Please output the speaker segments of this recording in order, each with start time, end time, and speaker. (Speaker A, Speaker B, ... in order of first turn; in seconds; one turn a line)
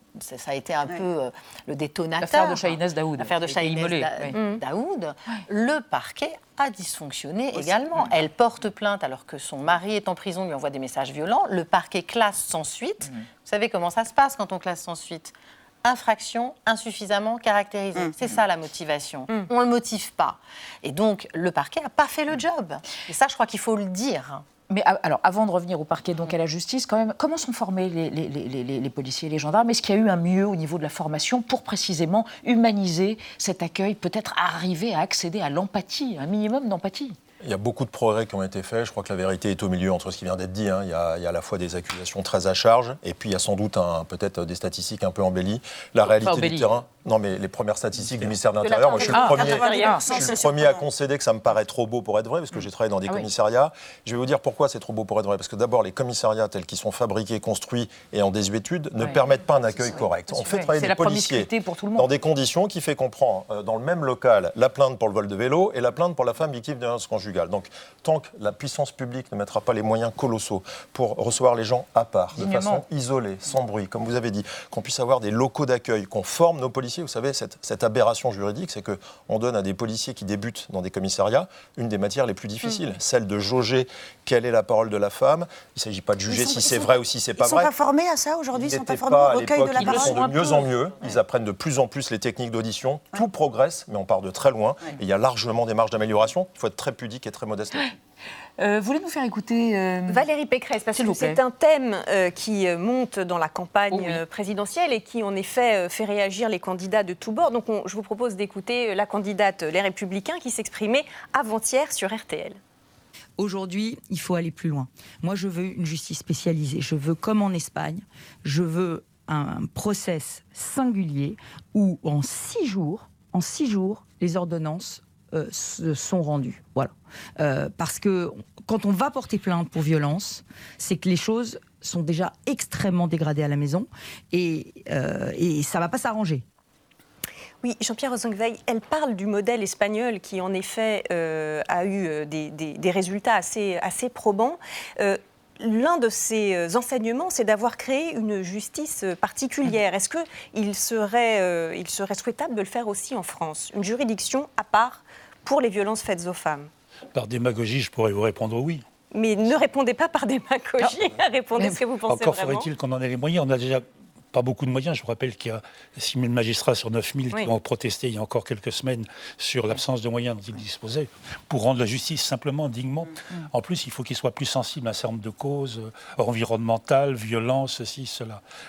Speaker A: 0.1-24.4
Speaker B: 2.2-4.3
Speaker C: 4.3-4.6
Speaker B: 7.5-8.1
Speaker B: 24.7-37.2
Speaker D: 37.4-87.7
Speaker B: 46.2-46.7
Speaker E: 48.6-50.9
Speaker B: 49.0-50.1
Speaker B: 59.0-62.1
Speaker B: 72.3-72.8
Speaker E: 86.3-90.6
Speaker D: 88.5-97.9
Speaker B: 89.8-90.6
Speaker B: 98.6-100.2
Speaker C: 100.1-112.6
Speaker B: 100.9-101.4
Speaker B: 103.9-104.2
Speaker F: 113.4-136.4
Speaker C: 137.6-156.7
Speaker G: 157.1-158.8
Speaker C: 159.1-162.7
Speaker G: 161.6-178.4